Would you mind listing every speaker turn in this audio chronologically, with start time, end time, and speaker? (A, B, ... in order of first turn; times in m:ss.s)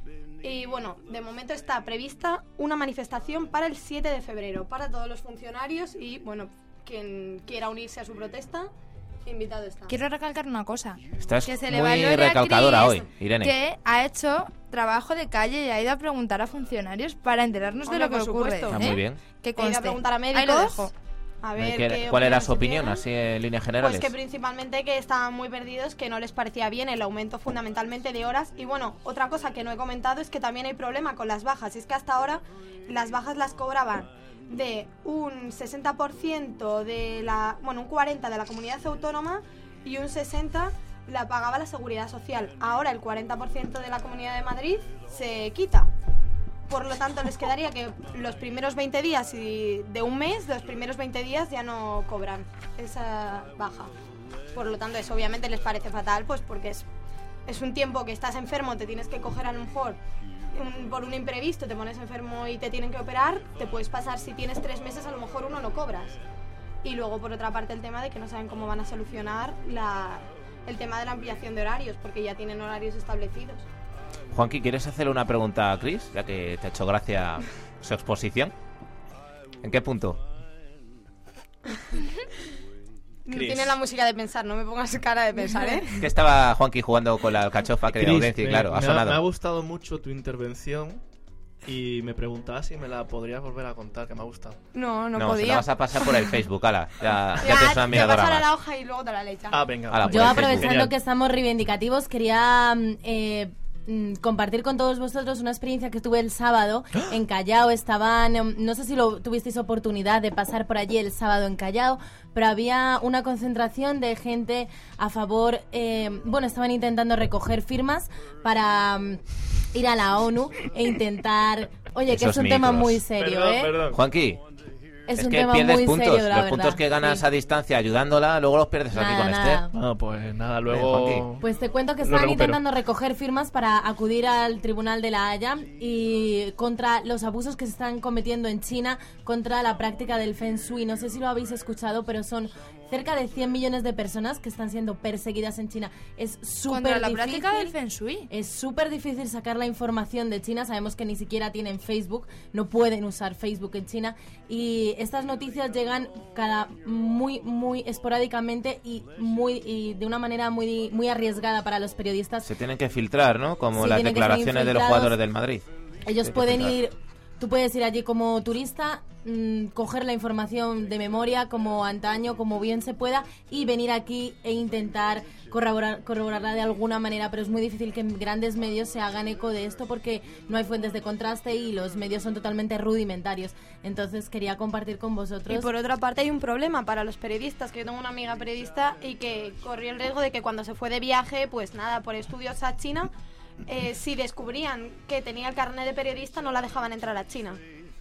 0:00.4-0:08.7 A
0:09.2-0:09.9 A
0:09.9-0:20.9 B
0:11.2-0:13.5 C
0:17.8-0:18.9 A
0:18.7-0:19.2 C
0:19.6-0:20.9 A
0:21.4-0:23.0 A
0:21.6-0:24.1 C
0:23.8-0:45.9 A
0:46.7-0:53.9 A
0:54.5-0:56.8 A
0:57.4-1:00.0 A
1:00.5-1:06.2 A
1:06.8-1:13.6 A
1:14.3-1:18.5 C
1:19.6-1:20.2 C
1:23.3-1:26.0 A
1:23.3-1:23.8 D
1:26.0-1:29.2 C
1:27.9-1:31.0 D
1:31.6-1:34.6 D
1:34.7-1:35.7 A
1:35.2-1:38.5 C
1:37.4-1:39.6 A
1:39.5-1:40.9 D
1:39.9-1:40.7 C
1:40.0-1:59.2 E
1:59.7-2:03.8 E
2:02.1-2:03.0 C
2:03.2-2:04.0 D
2:03.9-2:04.4 C
2:05.1-2:07.2 E
2:05.2-2:09.6 C
2:08.9-2:09.7 E
2:09.7-2:11.4 D
2:10.7-2:11.3 C
2:11.4-2:27.7 E
2:12.0-2:12.6 D
2:26.7-2:28.3 B
2:28.3-2:42.5 E
2:42.4-2:45.6 C
2:43.7-2:45.2 E
2:46.0-3:05.7 E
2:46.2-2:46.7 C
3:05.5-3:13.1 A
3:13.7-3:17.6 A